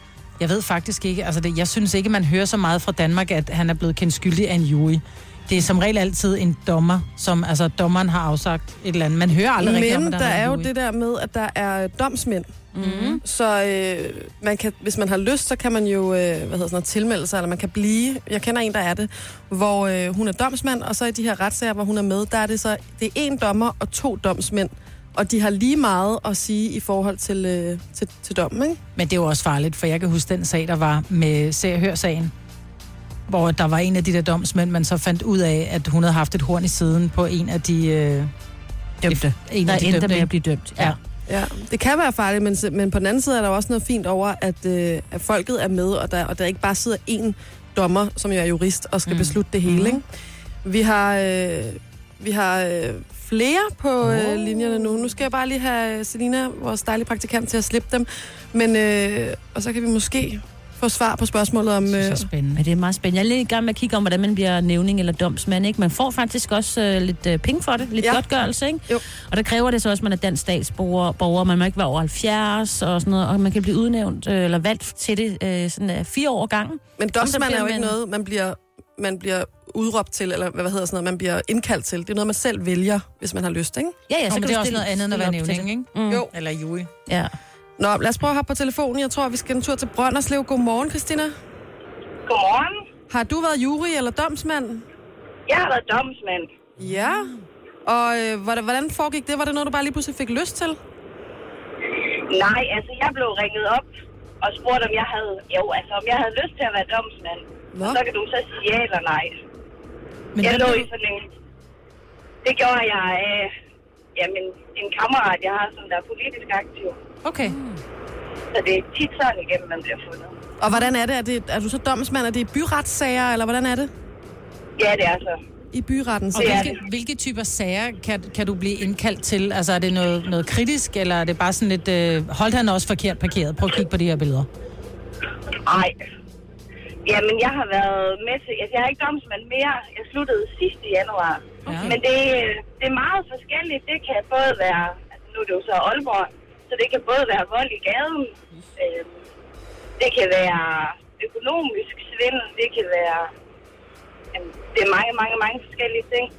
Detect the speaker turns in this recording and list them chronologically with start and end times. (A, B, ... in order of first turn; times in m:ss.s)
0:00.4-0:10.7 A
0:09.6-0:12.6 B
0:12.8-0:13.2 C
0:12.8-0:13.2 A
0:13.2-0:28.8 B
0:29.0-0:32.3 A
0:33.3-0:38.3 A
0:39.0-0:41.0 C
0:39.0-0:41.0 A
0:41.3-0:50.0 B
0:49.1-0:50.0 C
0:50.6-1:02.3 B
0:54.2-0:54.9 C
1:01.8-1:02.6 A
1:02.6-1:18.0 C
1:08.0-1:08.2 B
1:17.0-1:24.0 B
1:24.1-1:26.3 C
1:24.3-1:26.9 A
1:27.1-1:27.3 C
1:27.8-1:31.3 B
1:32.3-1:32.8 D
1:33.1-1:34.8 B
1:35.5-1:36.5 D
1:36.8-1:37.3 B
1:36.8-1:37.4 C
1:37.9-1:40.8 B
1:42.3-1:43.9 D
1:44.4-1:49.4 D
1:47.8-1:48.0 B
1:50.4-1:50.9 A
1:50.4-1:51.3 D
1:52.4-1:53.5 D
1:54.2-1:57.0 D
1:57.2-1:57.6 A
1:57.4-1:57.8 C
1:58.5-2:00.3 D
2:00.6-2:03.9 B
2:04.8-2:05.4 D
2:05.7-2:06.8 B
2:06.3-2:14.5 A
2:06.4-2:06.8 D
2:15.6-2:16.0 D
2:17.1-2:29.1 D
2:21.7-2:22.0 C
2:21.7-2:22.0 A
2:30.0-2:33.3 D
2:34.3-2:36.3 D